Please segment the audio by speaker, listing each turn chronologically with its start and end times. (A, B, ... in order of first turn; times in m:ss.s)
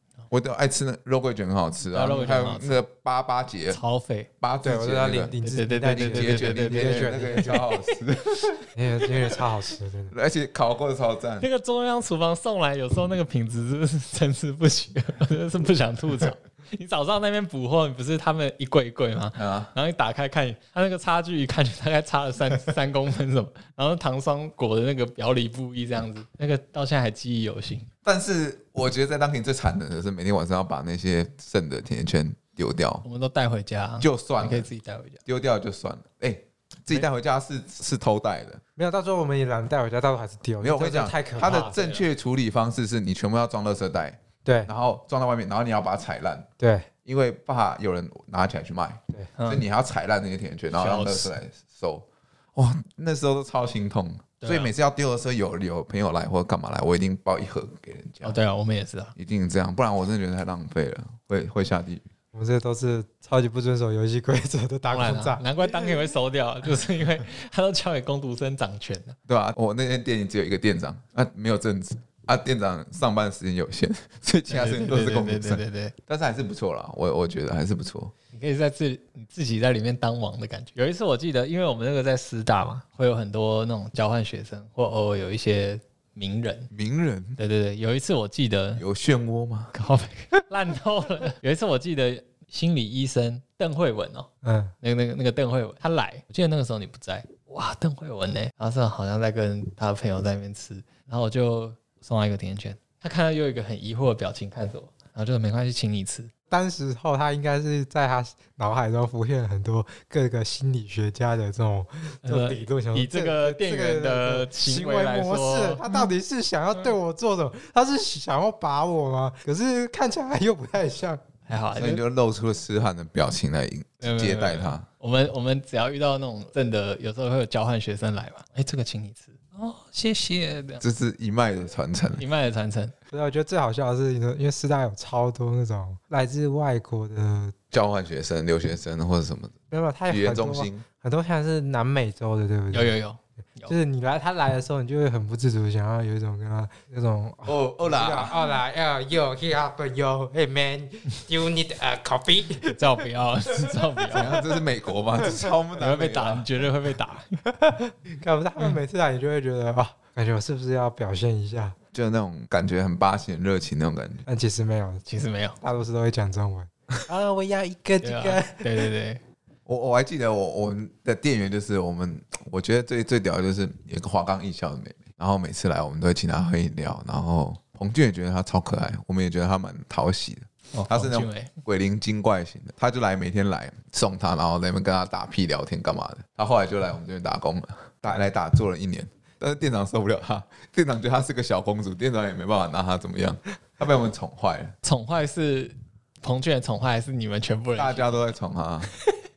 0:00.3-0:03.8 A
0:01.9-0:02.8 B
0:03.7-0:04.3 B
0:04.4-0:05.3 A
0:04.6-0:07.6 C
0:05.4-0:08.5 B
0:06.0-0:08.6 A
0:08.7-0:10.1 C
0:10.1-0:11.5 A
0:11.4-0:27.9 B
0:19.4-0:19.7 A
0:28.0-0:33.0 A
0:33.0-0:35.2 B
0:34.0-0:34.7 A
0:35.2-0:38.6 A
0:38.8-0:41.8 C
0:40.6-0:46.5 A
0:41.4-0:42.0 B
0:44.4-0:44.7 C
0:46.6-0:46.9 C
0:47.0-0:58.4 A
0:49.4-0:49.6 B
0:50.7-0:51.3 B
0:54.4-0:54.7 B
0:58.2-0:59.1 B
0:59.2-1:02.1 A
1:02.3-1:05.4 C
1:04.9-1:09.2 B
1:09.3-1:18.1 A
1:14.5-1:15.9 B
1:18.3-1:26.7 B
1:26.7-1:27.4 A
1:27.4-1:28.8 B
1:28.8-1:29.7 A
1:29.7-1:34.3 B
1:34.4-1:34.7 C
1:34.8-1:46.3 B
1:46.5-2:01.2 C
1:52.2-1:56.0 B
2:01.5-2:02.0 B
2:01.8-2:04.8 A
2:04.0-2:10.8 B
2:10.8-2:12.2 A
2:12.2-2:12.9 B
2:13.1-2:17.5 C
2:17.7-2:19.5 A
2:19.7-2:22.9 C
2:20.1-2:20.8 A
2:22.7-2:23.7 B
2:23.7-2:32.8 C
2:27.4-2:28.3 A
2:32.6-2:34.4 B
2:34.1-2:36.5 A
2:35.8-2:37.4 B
2:37.6-2:41.7 C
2:41.9-2:44.2 A
2:44.2-2:45.0 C
2:45.1-2:45.6 B
2:45.6-2:48.9 C
2:48.0-2:49.2 B
2:49.6-3:14.7 A
3:00.7-3:01.5 B
3:14.8-3:18.2 B
3:17.8-3:18.9 A